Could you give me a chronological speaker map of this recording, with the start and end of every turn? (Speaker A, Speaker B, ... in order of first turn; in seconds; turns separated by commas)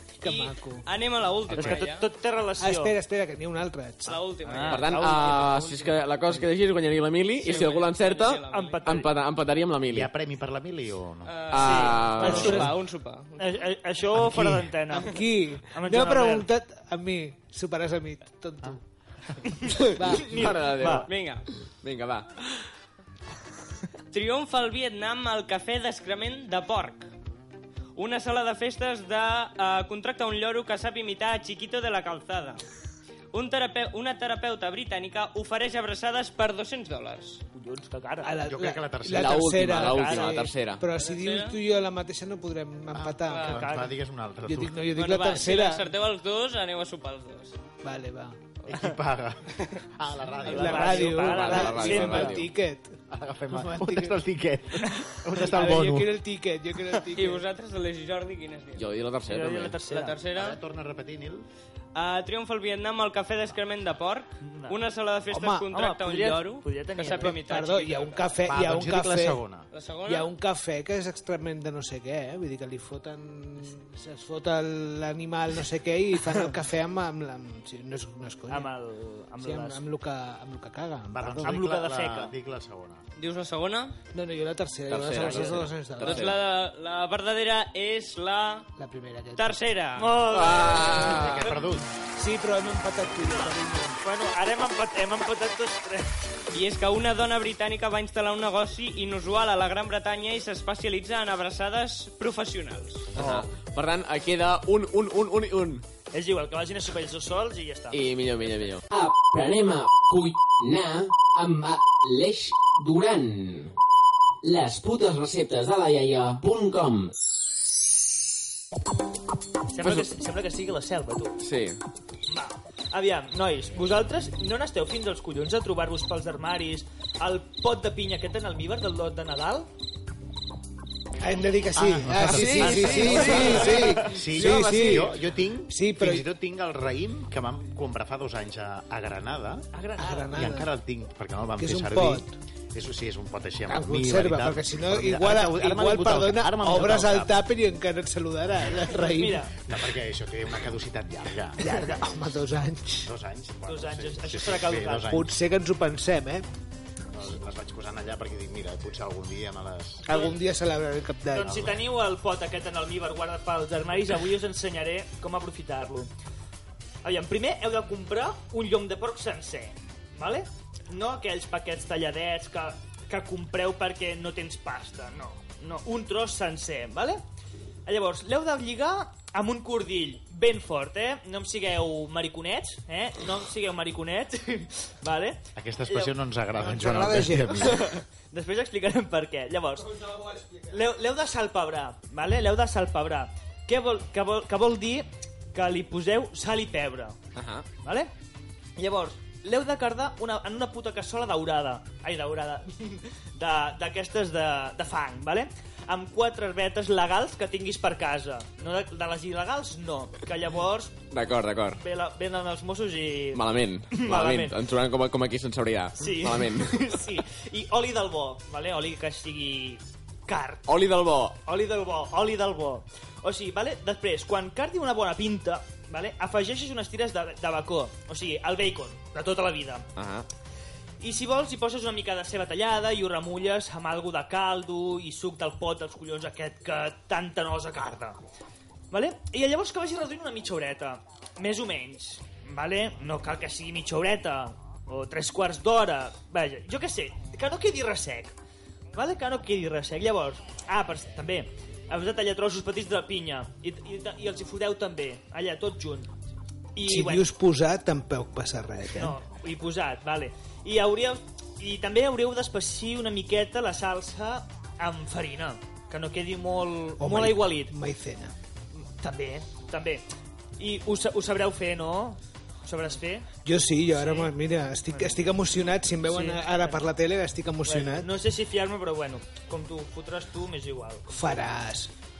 Speaker A: 0.2-0.8, Speaker B: 0.2-2.1, Speaker C: 1.5-1.8, Speaker D: 1.5-3.0, Speaker A: 2.6-4.2, Speaker B: 4.1-5.2, Speaker D: 4.4-6.0, Speaker E: 4.7-10.1, Speaker B: 7.3-9.0, Speaker D: 8.5-9.1, Speaker C: 9.9-11.6, Speaker B: 11.2-13.6, Speaker E: 11.5-12.7, Speaker D: 11.6-12.7, Speaker A: 12.2-12.7, Speaker D: 13.4-16.5, Speaker A: 14.2-18.8, Speaker D: 19.5-21.1, Speaker E: 19.9-21.1, Speaker A: 19.9-20.5, Speaker B: 20.9-21.5, Speaker E: 21.8-22.3, Speaker B: 24.1-27.1, Speaker B: 27.9-32.6, Speaker B: 33.3-37.4, Speaker D: 37.5-38.4, Speaker A: 38.2-43.6, Speaker C: 38.5-39.7, Speaker E: 39.1-40.8, Speaker D: 39.7-40.4, Speaker B: 40.9-41.6, Speaker C: 42.9-44.9, Speaker B: 43.3-43.6, Speaker D: 43.4-44.0, Speaker A: 44.5-45.9, Speaker B: 44.9-47.6, Speaker A: 47.8-48.4, Speaker C: 48.7-51.1, Speaker D: 50.5-52.5, Speaker A: 50.5-53.0, Speaker B: 50.8-51.0, Speaker E: 51.1-52.5, Speaker C: 53.1-56.2, Speaker A: 53.5-54.2, Speaker A: 55.4-57.5, Speaker B: 57.1-58.9, Speaker E: 58.8-59.8, Speaker D: 59.3-60.2, Speaker B: 59.8-60.6, Speaker C: 60.3-61.5, Speaker B: 61.9-68.3, Speaker D: 64.4-64.8, Speaker A: 65.3-65.7, Speaker D: 65.7-67.5, Speaker A: 67.1-69.4, Speaker C: 68.5-69.7, Speaker B: 69.7-70.3, Speaker A: 70.0-78.7, Speaker D: 78.5-79.8, Speaker A: 79.4-81.6, Speaker C: 81.1-83.0, Speaker D: 81.4-82.3, Speaker B: 83.2-84.0, Speaker A: 84.1-86.4, Speaker E: 84.9-86.4, Speaker B: 86.0-88.7, Speaker A: 88.8-89.6, Speaker B: 89.4-90.2, Speaker D: 90.0-91.7, Speaker E: 90.3-91.5, Speaker C: 91.1-91.9, Speaker A: 92.2-94.0, Speaker D: 93.3-96.2, Speaker B: 96.5-103.2, Speaker E: 103.2-105.8, Speaker D: 103.2-103.5, Speaker D: 106.1-108.0, Speaker E: 107.9-108.9, Speaker F: 108.9-113.7, Speaker F: 114.4-117.1, Speaker D: 119.7-121.4, Speaker E: 121.4-121.8, Speaker D: 122.3-129.7, Speaker A: 131.2-136.2, Speaker C: 131.8-139.7, Speaker E: 132.2-135.1, Speaker D: 132.4-134.2, Speaker D: 139.7-140.4, Speaker A: 140.0-140.7, Speaker C: 140.3-147.4, Speaker A: 141.6-142.3, Speaker A: 143.7-149.5, Speaker D: 148.9-149.6, Speaker C: 149.7-152.3, Speaker A: 151.6-153.1, Speaker C: 153.1-155.4, Speaker D: 153.7-155.1, Speaker A: 155.1-156.5, Speaker C: 157.1-160.3, Speaker A: 160.1-161.7, Speaker D: 160.1-160.4, Speaker D: 161.3-166.1, Speaker C: 161.4-161.8, Speaker D: 167.0-177.2, Speaker D: 177.9-186.2, Speaker C: 185.6-188.0, Speaker A: 186.6-187.9, Speaker D: 188.3-190.0, Speaker A: 189.9-190.7, Speaker D: 190.7-197.2, Speaker E: 197.3-197.7, Speaker D: 197.8-198.1, Speaker D: 198.8-211.0, Speaker E: 211.1-211.8, Speaker D: 211.8-214.6, Speaker E: 213.3-216.9, Speaker D: 216.0-220.7, Speaker E: 220.7-221.4, Speaker D: 221.5-229.9, Speaker E: 230.0-230.3, Speaker D: 231.0-238.2, Speaker D: 238.9-248.3, Speaker D: 248.9-256.1, Speaker D: 256.8-257.3, Speaker A: 256.9-259.2, Speaker D: 258.9-267.7, Speaker A: 267.0-268.3, Speaker D: 268.8-270.1, Speaker D: 270.6-273.3, Speaker A: 273.4-278.1, Speaker D: 273.9-274.3, Speaker D: 274.9-275.3, Speaker D: 276.1-276.9, Speaker D: 277.6-281.5, Speaker A: 281.1-281.9